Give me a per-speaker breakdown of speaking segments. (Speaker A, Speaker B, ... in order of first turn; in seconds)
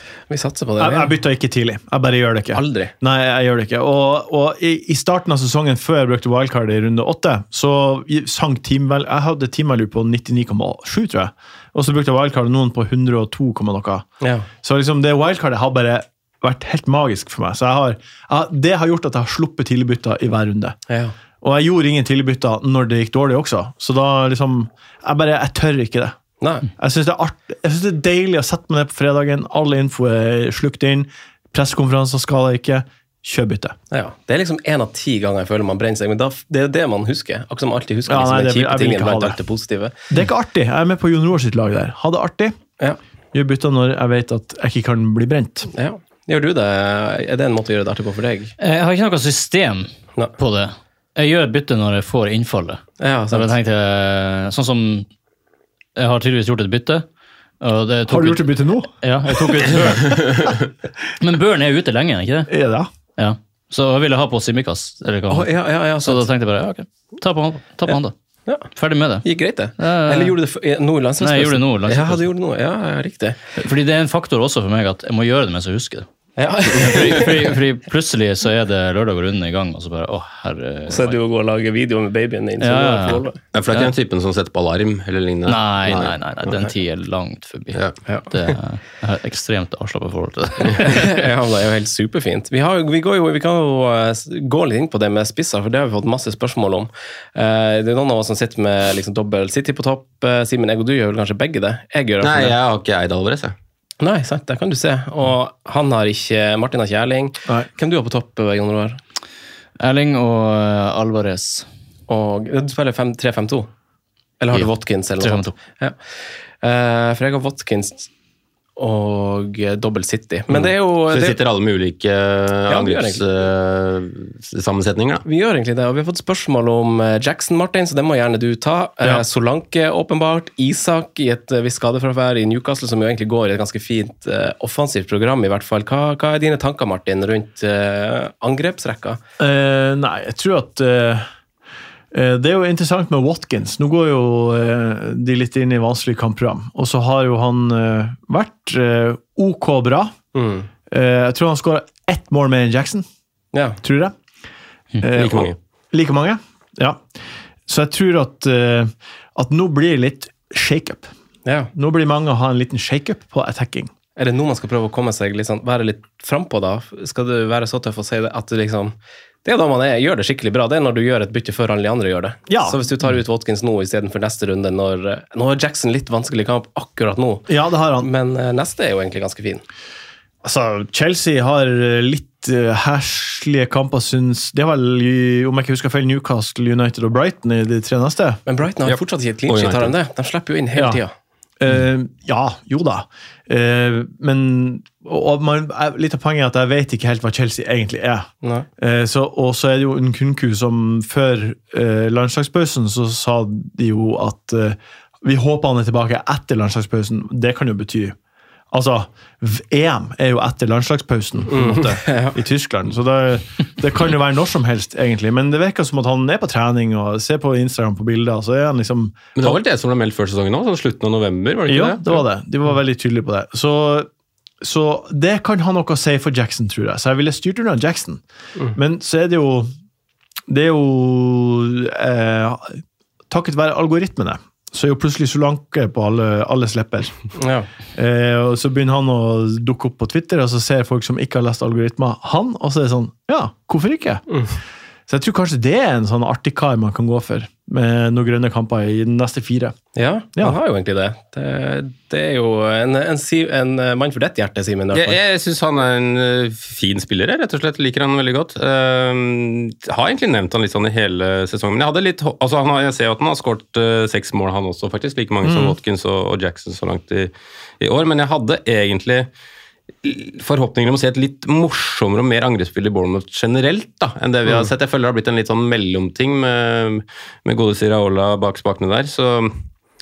Speaker A: 0.3-1.1, 2.5-2.9, 14.2-14.5, 20.9-21.1, 26.4-26.7, 33.9-39.9, 45.7-48.5, 53.0-53.5, 65.3-66.3, 69.2-73.4, 76.4-77.5, 80.9-83.4, 90.8-102.5, 104.0-109.0, 112.1-113.7, 114.4-116.0, 116.6-118.1, 118.8-121.4, 122.7-123.2, 125.2-139.2, 150.3-150.7, 153.5-153.8, 161.4-161.7, 164.2-179.6, 188.5-191.1, 198.4-198.7, 211.5-212.3, 237.4-237.7, 244.3-244.5, 249.9-255.2
Speaker B: 0.8-14.1, 14.6-20.8, 21.4-26.1, 26.8-33.8, 38.1-39.4, 40.1-42.5, 43.3-45.7, 58.1-60.5, 62.5-62.9, 139.4-141.2, 142.1-150.1, 150.9-153.1, 153.8-154.1, 155.0-157.0, 157.7-161.1, 161.7-163.9, 172.5-172.8, 177.5-178.1, 180.4-188.4, 190.7-191.0, 191.6-198.3, 198.8-208.2, 208.7-219.6, 221.7-224.1, 224.6-228.2, 228.7-229.7, 230.5-237.1, 237.9-244.2, 245.1-249.8, 265.4-265.8
Speaker C: 48.6-55.1, 56.0-57.0, 57.6-60.4, 61.2-62.5, 63.2-68.1, 68.8-69.2, 69.8-70.3, 71.2-72.2, 73.6-76.0, 76.7-81.2, 82.6-83.9, 85.5-91.1, 109.8-111.7, 114.5-115.5
Speaker D: 83.5-86.7, 102.2-103.5, 120.5-125.2, 155.1-155.6, 188.8-189.9, 219.4-222.2, 254.9-269.3, 270.0-279.6